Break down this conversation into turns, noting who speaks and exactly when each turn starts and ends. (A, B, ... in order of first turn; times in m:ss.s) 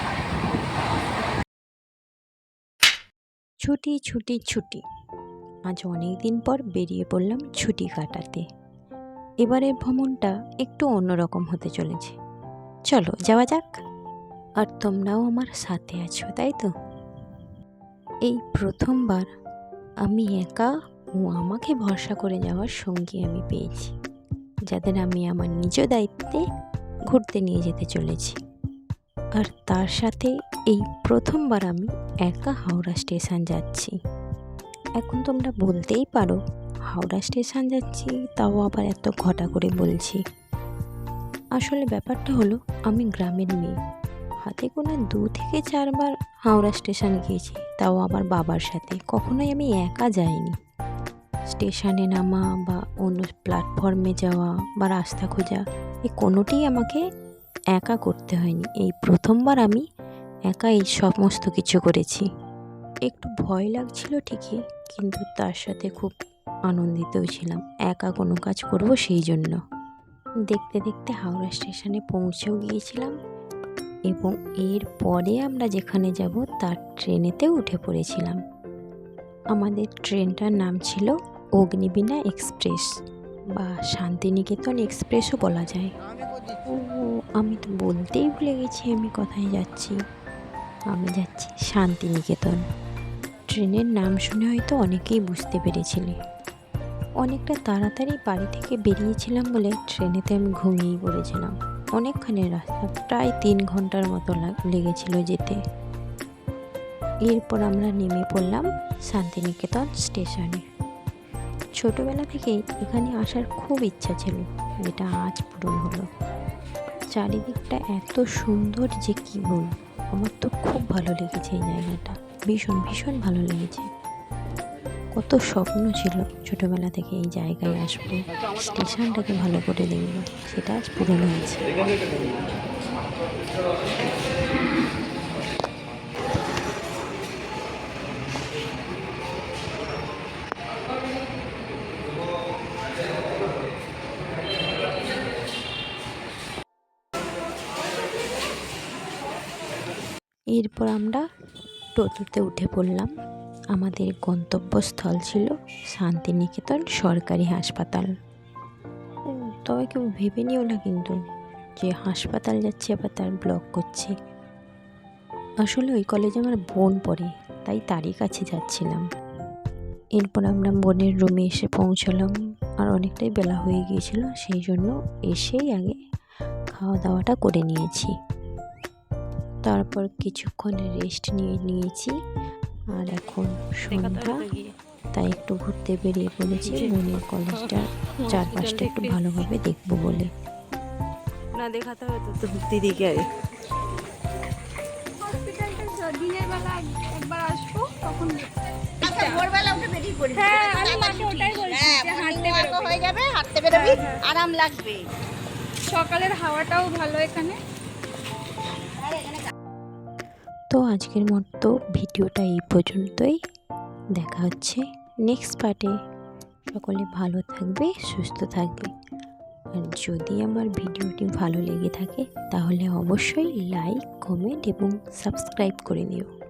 0:03.6-0:04.8 A
0:05.7-0:08.4 A
0:09.4-0:12.2 A
0:12.9-0:13.7 A
0:14.6-0:16.7 A
0:18.3-0:19.3 A
0:20.1-0:20.7 A
0:21.2-0:23.9 A
0:24.7-0:26.4 A
0:27.1-0:28.4 A
0:29.4-0:33.9 A
0:35.0-0:36.4 A
0:36.9-0:40.2 A
0:41.6-0:43.8 A
0:44.5-0:50.6 A
0:51.5-0:57.0 A
0:57.8-0:59.8 A
1:00.5-1:02.3 A
1:03.1-1:06.1 A
1:06.7-1:09.6 A
1:10.5-1:13.1 A
1:14.1-1:18.4 A
1:19.5-1:22.9 A
1:23.6-1:25.9 A
1:26.7-1:30.0 A
1:30.9-1:32.6 A
1:33.5-1:36.1 A
1:37.2-1:45.6 A
1:47.3-1:50.6 A
1:51.8-1:56.0 A
1:57.1-2:03.9 A
2:05.2-2:11.6 A
2:30.6-2:31.2 A
2:32.0-2:33.1 A
2:33.8-2:38.1 A
2:39.3-2:41.2 A
2:41.8-2:44.1 A
2:45.7-2:49.0 A
2:50.2-2:52.3 A
2:52.8-2:56.0 A
2:56.8-2:58.1 A
2:59.7-3:02.1 A
3:03.0-3:04.4 A
3:03.9-3:04.7 B
3:05.2-3:10.3 A
3:06.7-3:07.0 B
3:07.6-3:09.2 B
3:11.5-3:13.2 B
3:15.2-3:18.5 C
3:19.0-3:19.5 C
3:19.0-3:25.0 D
3:20.3-3:23.0 C
3:23.7-3:24.2 C
3:25.9-3:27.6 C
3:29.1-3:29.4 D
3:30.7-3:33.4 A
3:34.2-3:35.9 A
3:36.7-3:38.9 A
3:39.8-3:46.3 A